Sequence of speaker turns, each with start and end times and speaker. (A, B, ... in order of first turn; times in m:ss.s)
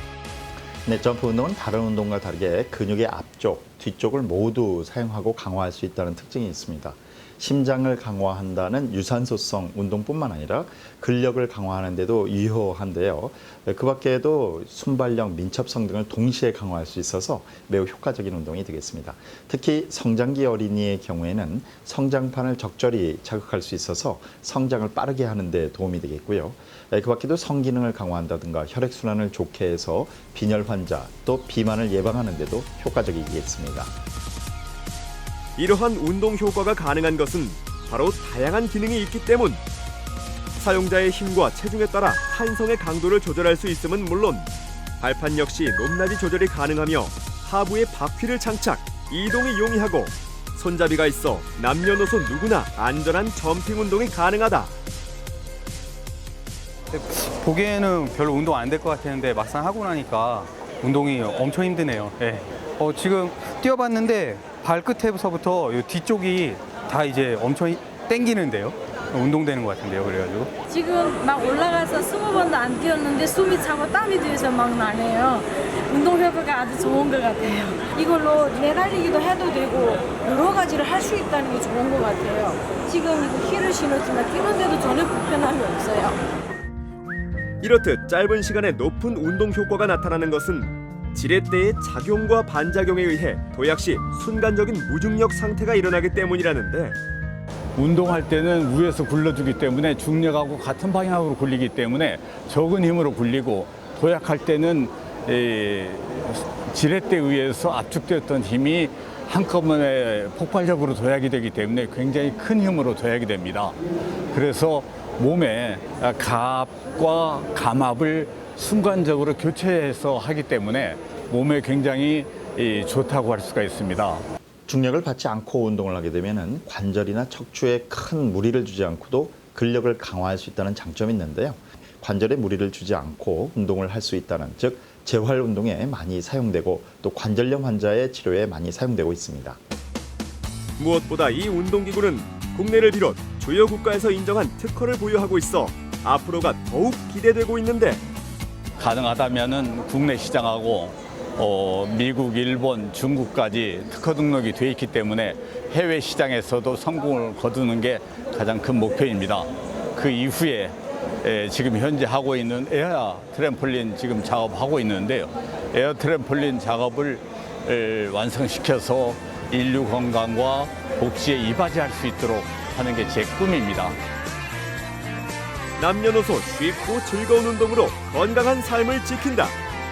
0:00.8-0:33.9 A
0:35.6-0:39.6 B
0:40.6-0:54.7 B
0:56.9-1:10.5 C
1:10.7-1:26.2 D
1:27.6-1:37.0 B
1:37.8-1:53.8 E
1:54.3-2:04.2 E
2:04.7-2:19.6 A
2:20.8-2:28.0 B
2:28.8-2:54.0 E
2:55.8-2:59.6 B